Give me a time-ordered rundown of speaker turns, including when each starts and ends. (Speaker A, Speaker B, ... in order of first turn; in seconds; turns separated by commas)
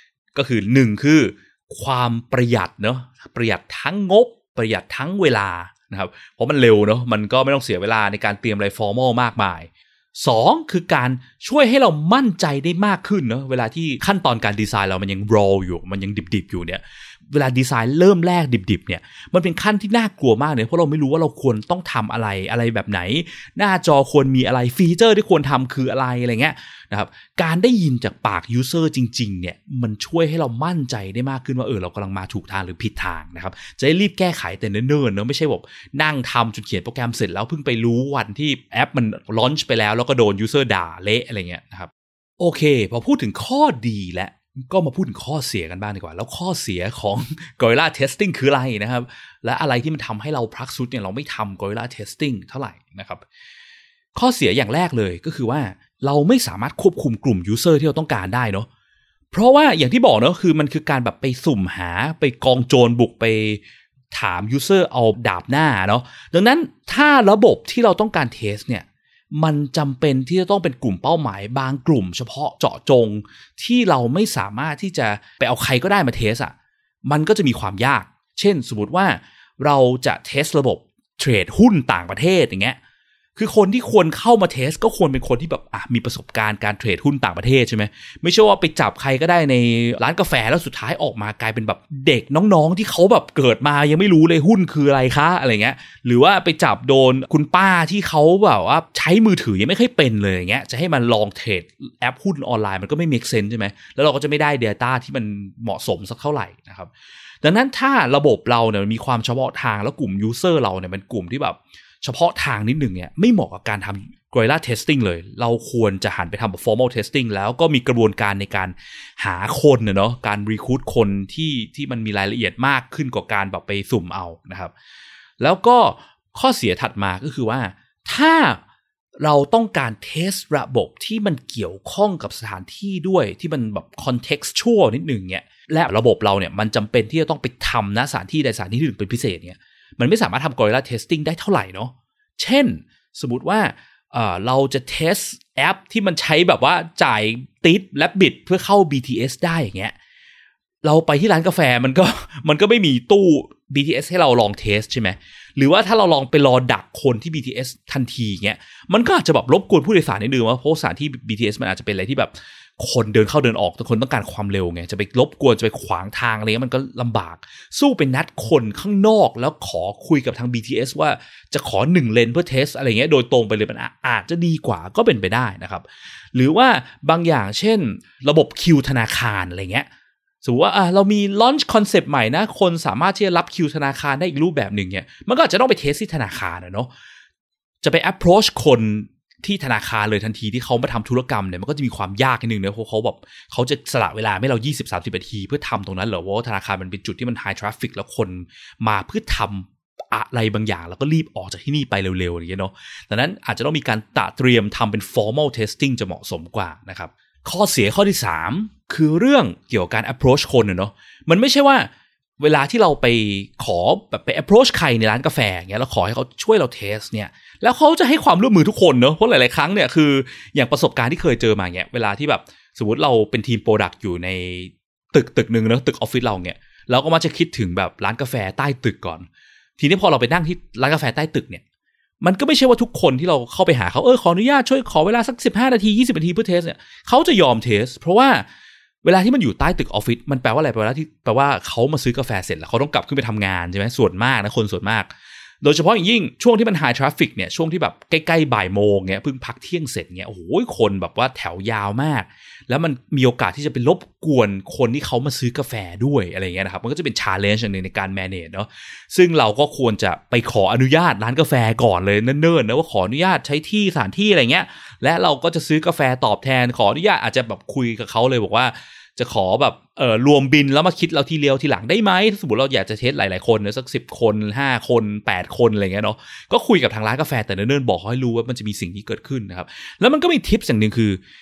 Speaker A: 0.3-53.2, Speaker A: 54.1-58.7, Speaker A: 59.3-76.5, Speaker A: 77.0-82.8, Speaker A: 83.4-124.7, Speaker A: 125.4-128.6, Speaker A: 129.2-149.9, Speaker A: 150.8-179.9, Speaker A: 180.4-186.9, Speaker A: 187.8-229.3, Speaker A: 229.8-231.6, Speaker A: 232.2-238.5, Speaker A: 239.0-281.2